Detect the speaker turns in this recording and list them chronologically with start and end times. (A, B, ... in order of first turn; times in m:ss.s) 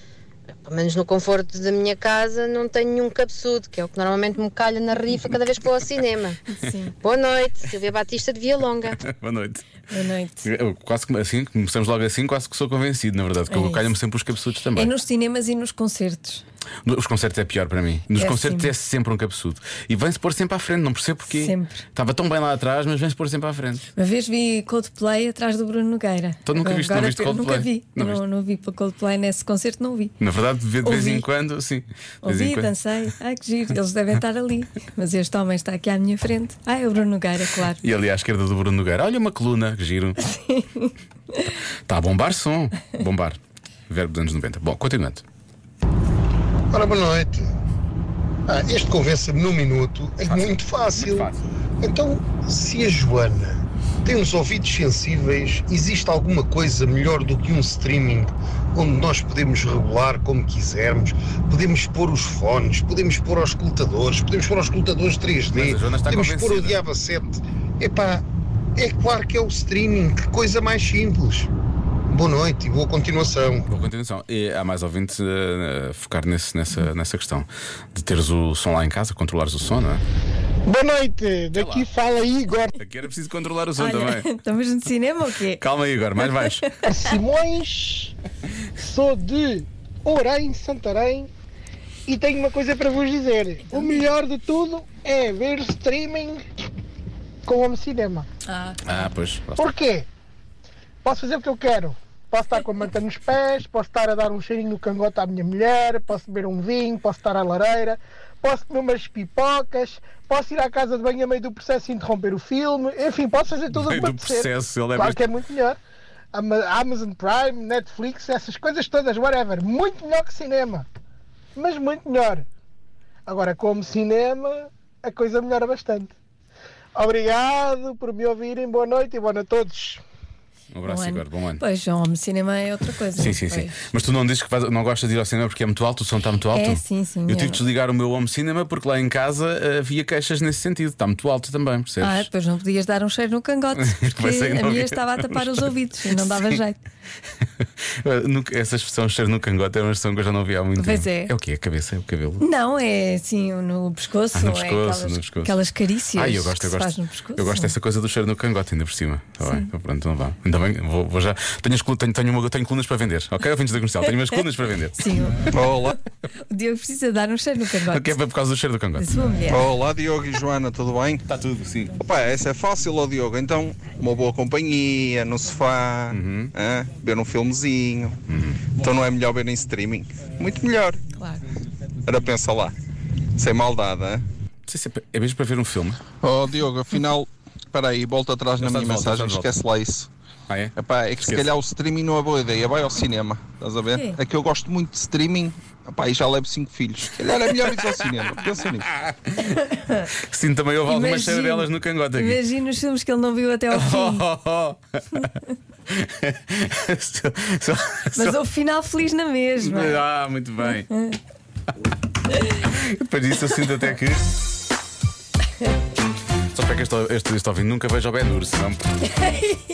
0:00.6-0:06.4 A
0:06.5-0:07.0 B
0:07.0-0:09.0 A
0:09.0-0:09.8 C
0:09.9-0:10.5 B
0:10.4-0:14.9 C
0:13.5-0:13.9 B
0:14.8-0:16.4 B
0:16.8-0:23.8 C
0:18.1-0:18.7 B
0:21.3-0:21.8 B
0:24.0-0:30.2 B
0:26.5-0:28.2 C
0:30.2-0:32.7 C
0:30.8-0:31.3 B
0:32.2-0:37.8 B
0:37.8-0:40.2 C
0:40.3-0:40.9 B
0:41.9-0:45.2 C
0:46.7-0:47.5 D
0:48.5-1:08.2 D
0:50.2-0:51.4 C
1:05.5-1:06.8 C
1:08.8-1:11.5 D
1:12.1-1:13.7 D
1:13.7-1:20.0 C
1:20.7-1:22.8 E
1:21.5-1:21.9 C
1:22.8-1:24.3 C
1:23.8-1:25.6 B
1:25.6-1:26.7 C
1:26.3-1:26.6 B
1:26.9-1:28.1 E
1:28.8-1:31.3 E
1:32.1-1:36.4 E
1:37.5-1:38.3 E
1:38.5-1:39.0 B
1:38.8-1:39.6 C
1:39.6-1:40.1 E
1:41.0-1:55.8 E
1:53.7-1:55.2 C
1:56.3-2:00.9 E
2:01.6-2:02.5 E
2:03.3-2:06.1 E
2:07.0-2:10.0 E
2:10.7-2:11.6 C
2:10.8-2:13.8 B
2:13.2-2:22.3 C
2:16.5-2:17.6 B
2:22.0-2:26.8 B
2:23.7-2:26.6 C
2:28.0-2:32.4 C
2:30.8-2:31.3 B
2:32.4-2:37.7 B
2:34.3-2:35.6 C
2:36.1-2:45.1 C
2:39.4-2:39.7 B
2:45.0-2:45.5 B
2:45.5-2:46.0 F
2:46.5-2:48.2 B
2:47.9-2:49.1 C
2:49.0-2:49.6 B
2:49.5-2:51.2 F
2:51.3-2:52.0 C
2:52.0-2:58.2 F
2:56.1-2:56.5 C
2:58.3-2:58.6 C
2:58.8-3:01.0 F
3:01.2-3:01.4 B
3:02.1-3:02.7 F
3:03.4-3:04.2 F
3:04.7-3:06.0 C
3:06.2-3:10.1 F
3:08.6-3:09.5 C
3:10.5-3:11.5 C
3:10.8-3:18.9 F
3:19.0-3:19.6 C
3:20.2-3:22.4 C
3:20.9-3:24.3 B
3:23.7-3:25.3 C
3:25.9-3:28.4 C
3:28.2-3:30.0 B
3:29.6-3:30.9 C
3:32.6-3:34.3 C
3:36.5-3:39.0 C